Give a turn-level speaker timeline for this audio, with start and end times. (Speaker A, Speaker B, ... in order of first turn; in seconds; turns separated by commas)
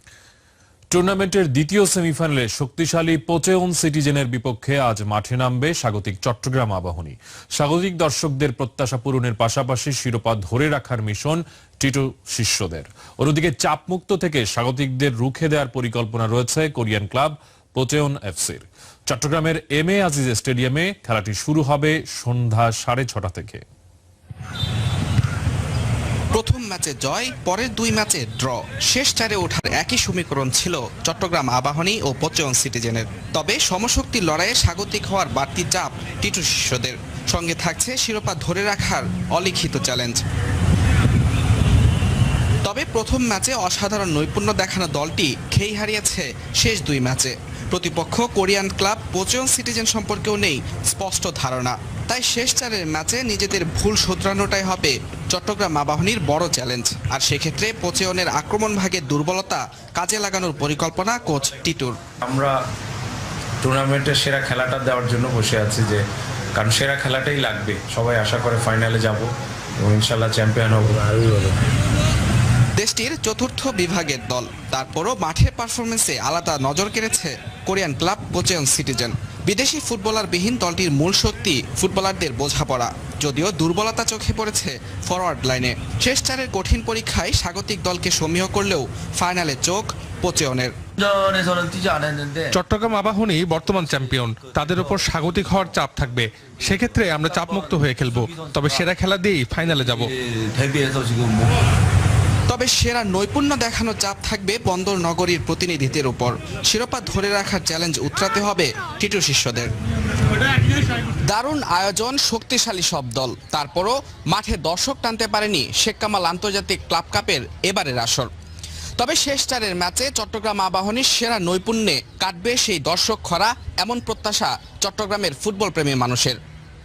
Speaker A: 0.9-23.6, Speaker B: 26.3-40.2, Speaker B: 42.6-62.0, Speaker C: 62.2-62.5, Speaker C: 63.6-66.0, Speaker C: 66.5-69.3, Speaker C: 69.8-71.3, Speaker B: 72.8-90.7, Speaker D: 91.0-101.5, Speaker B: 102.5-109.7, Speaker B: 111.2-118.3, Speaker B: 119.0-126.4